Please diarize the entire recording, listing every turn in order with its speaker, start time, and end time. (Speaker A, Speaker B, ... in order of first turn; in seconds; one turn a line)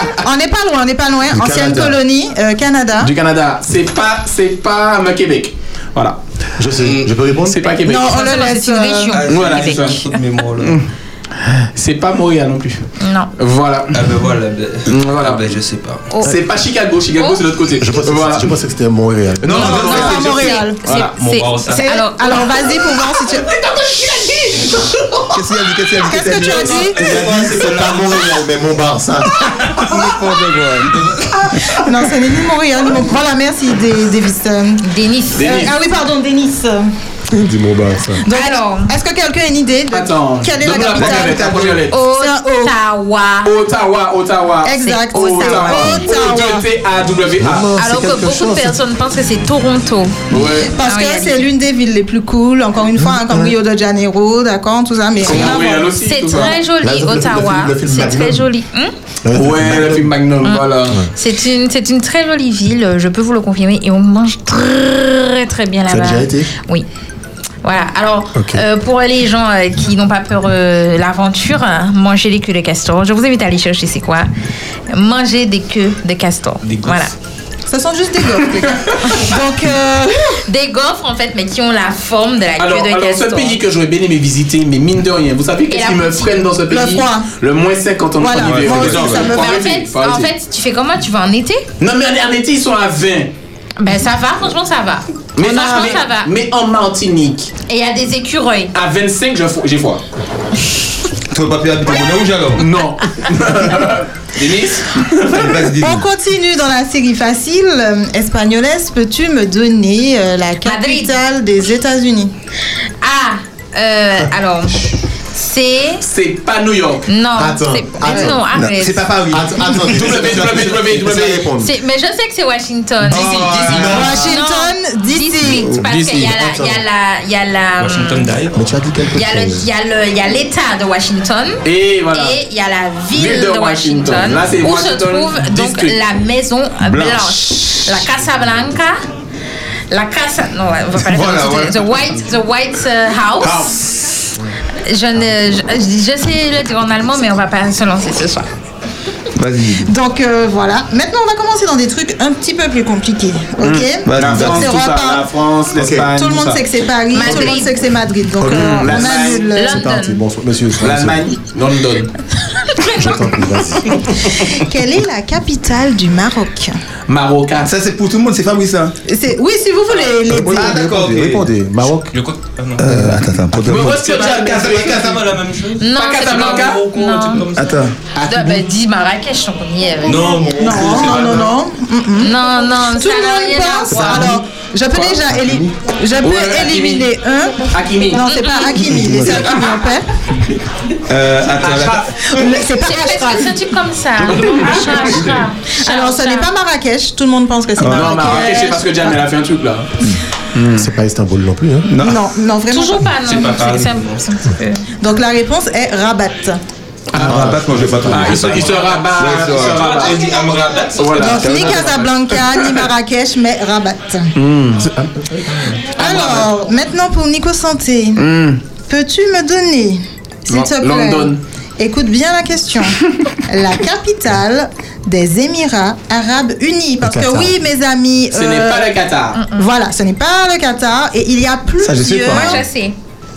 Speaker A: 0.2-3.1
Speaker B: 1.3-2.0
Speaker C: 3.0-6.2
Speaker B: 6.6-7.7
Speaker C: 7.5-8.2
Speaker A: 7.8-9.2
Speaker D: 7.9-10.0
Speaker E: 9.1-10.8
Speaker C: 9.2-10.0
Speaker C: 11.7-12.8
Speaker D: 13.0-13.3
Speaker C: 13.4-14.0
Speaker E: 13.9-16.1
Speaker C: 14.9-15.4
Speaker D: 16.1-16.3
Speaker C: 16.2-18.5
Speaker D: 17.2-17.4
Speaker B: 17.8-19.8
Speaker C: 19.4-21.2
Speaker D: 19.5-22.8
Speaker A: 19.5-20.8
Speaker E: 20.9-21.8
Speaker A: 21.7-23.5
Speaker C: 23.4-25.4
Speaker F: 25.3-28.1
Speaker A: 26.0-27.0
Speaker C: 26.2-27.8
Speaker E: 27.0-28.0
Speaker B: 27.0-29.3
Speaker F: 29.4-30.9
Speaker E: 30.9-31.7
Speaker A: 31.7-34.8
Speaker D: 34.8-35.7
Speaker C: 35.3-35.7
Speaker A: 35.4-36.9
Speaker B: 37.3-38.2
Speaker A: 38.2-42.7
Speaker D: 38.3-38.9
Speaker C: 39.9-42.0
Speaker F: 41.0-41.8
Speaker D: 41.9-43.6
Speaker C: 43.4-47.7
Speaker A: 44.6-46.7
Speaker D: 44.8-46.0
Speaker B: 47.4-48.7
Speaker D: 47.8-50.2
Speaker C: 50.3-50.7
Speaker A: 50.5-56.5
Speaker D: 50.8-51.5
Speaker C: 55.2-56.5
Speaker D: 56.0-58.9
Speaker B: 56.8-58.5
Speaker B: 59.2-60.1
Speaker C: 59.3-61.0
Speaker D: 60.4-66.9
Speaker B: 65.9-66.5
Speaker D: 67.6-74.3
Speaker B: 68.3-68.6
Speaker D: 74.9-77.1
Speaker E: 76.7-77.0
Speaker A: 77.7-80.4
Speaker D: 80.5-83.6
Speaker C: 82.6-90.3
Speaker D: 85.7-86.3
Speaker A: 86.7-87.3
Speaker A: 88.2-89.5
Speaker F: 88.4-89.2
Speaker D: 89.2-91.6
Speaker C: 91.8-93.3
Speaker D: 93.8-96.3
Speaker C: 95.3-97.5
Speaker D: 97.7-98.7
Speaker C: 98.7-100.0
Speaker F: 101.3-102.7
Speaker C: 102.5-105.7
Speaker F: 105.3-106.0
Speaker A: 105.8-112.3
Speaker D: 110.6-111.1
Speaker D: 113.0-116.0
Speaker C: 116.0-117.0
Speaker D: 117.1-119.0
Speaker B: 117.3-118.4
Speaker A: 118.0-118.3
Speaker F: 118.4-120.5
Speaker B: 119.3-121.7
Speaker C: 119.8-121.5
Speaker D: 121.6-128.3
Speaker F: 123.1-124.1
Speaker C: 123.1-124.0
Speaker B: 123.7-124.2
Speaker A: 123.9-125.7
Speaker B: 125.6-126.8
Speaker C: 125.8-126.3
Speaker E: 127.8-128.6
Speaker B: 128.5-129.7
Speaker D: 129.1-139.0
Speaker C: 131.6-132.4
Speaker C: 133.1-136.0
Speaker F: 136.8-138.0
Speaker D: 139.9-143.8
Speaker F: 140.9-141.8
Speaker C: 143.4-143.8
Speaker D: 144.8-148.5
Speaker F: 149.3-149.9
Speaker A: 149.8-155.3
Speaker C: 153.6-156.7
Speaker F: 154.1-154.8
Speaker B: 155.7-156.1
Speaker A: 156.0-159.8
Speaker D: 157.1-157.8
Speaker C: 157.2-157.5
Speaker B: 158.4-161.3
Speaker C: 158.4-159.6
Speaker D: 159.5-160.2
Speaker C: 160.8-162.1
Speaker B: 162.9-164.0
Speaker A: 164.3-166.8
Speaker C: 167.1-167.7
Speaker F: 167.6-168.9
Speaker A: 169.1-170.8
Speaker F: 170.3-171.5
Speaker B: 170.3-172.2
Speaker E: 172.1-173.1
Speaker F: 172.8-175.2
Speaker B: 172.8-173.9
Speaker C: 173.6-175.1
Speaker E: 174.1-177.8
Speaker D: 175.8-177.4
Speaker C: 175.9-176.9
Speaker F: 177.4-177.9
Speaker B: 178.2-178.6
Speaker D: 178.2-180.4
Speaker E: 180.0-181.6
Speaker A: 180.6-190.1
Speaker D: 182.2-184.3
Speaker C: 184.0-185.7
Speaker C: 186.2-187.1
Speaker C: 187.7-188.3
Speaker D: 188.2-188.8
Speaker C: 189.1-189.7
Speaker F: 191.1-192.0
Speaker C: 191.6-192.4
Speaker A: 192.2-193.6
Speaker D: 192.8-196.5
Speaker C: 194.2-195.4
Speaker A: 195.8-199.2
Speaker F: 197.8-198.3
Speaker C: 197.9-199.9
Speaker C: 200.5-200.9
Speaker B: 200.7-202.0
Speaker F: 201.8-202.2
Speaker A: 202.0-203.1
Speaker D: 202.7-204.8
Speaker E: 203.2-204.2
Speaker A: 205.0-206.6
Speaker C: 207.1-207.5
Speaker F: 207.1-210.7
Speaker B: 207.2-208.5
Speaker C: 208.1-212.9
Speaker E: 209.6-211.7
Speaker A: 211.2-214.3
Speaker F: 211.4-211.9
Speaker C: 214.3-214.9
Speaker B: 214.8-215.6
Speaker C: 215.8-216.5
Speaker A: 215.9-218.2
Speaker C: 218.2-218.6
Speaker A: 218.8-228.9
Speaker C: 220.5-221.4
Speaker B: 227.0-227.5
Speaker C: 228.3-229.5
Speaker D: 229.3-229.6
Speaker A: 229.5-232.6
Speaker F: 231.8-232.6
Speaker D: 232.2-232.9